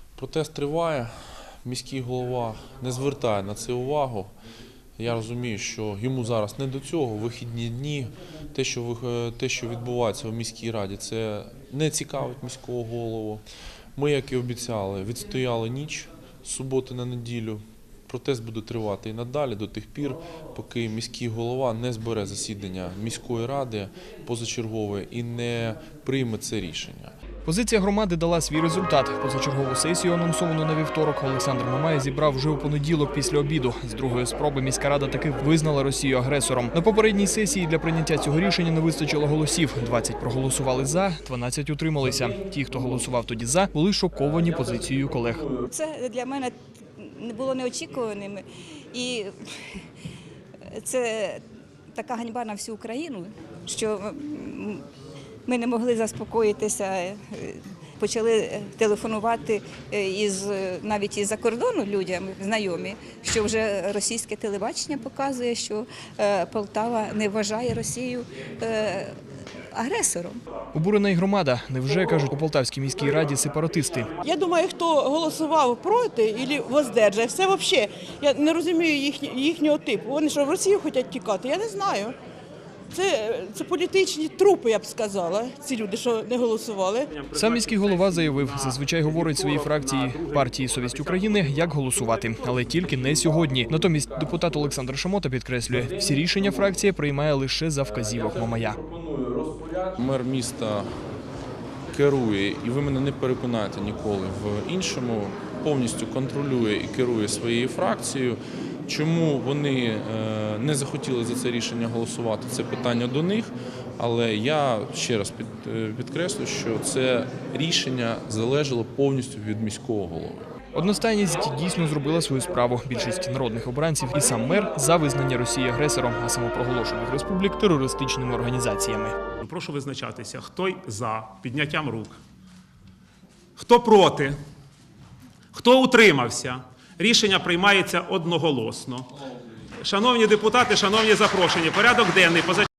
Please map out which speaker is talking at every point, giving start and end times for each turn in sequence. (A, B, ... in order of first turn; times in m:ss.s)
0:00.2-0:01.1 A
0:01.6-0:04.3 A
0:05.0-0:13.4 A
0:14.0-0:27.1 A
0:27.4-0:45.5 B
0:45.7-0:49.8 C
0:50.7-0:54.8 C
0:55.4-1:09.2 C
1:09.7-1:10.4 C
1:10.7-1:14.1 B
1:14.2-1:22.2 D
1:22.9-1:27.1 D
1:27.2-1:30.4 E
1:27.4-1:38.8 B
1:39.8-1:40.9 A
1:41.9-2:00.5 A
2:00.7-2:09.2 B
2:09.4-2:12.2 E
2:13.6-2:14.4 E
2:15.5-2:19.1 E
2:19.8-2:22.7 E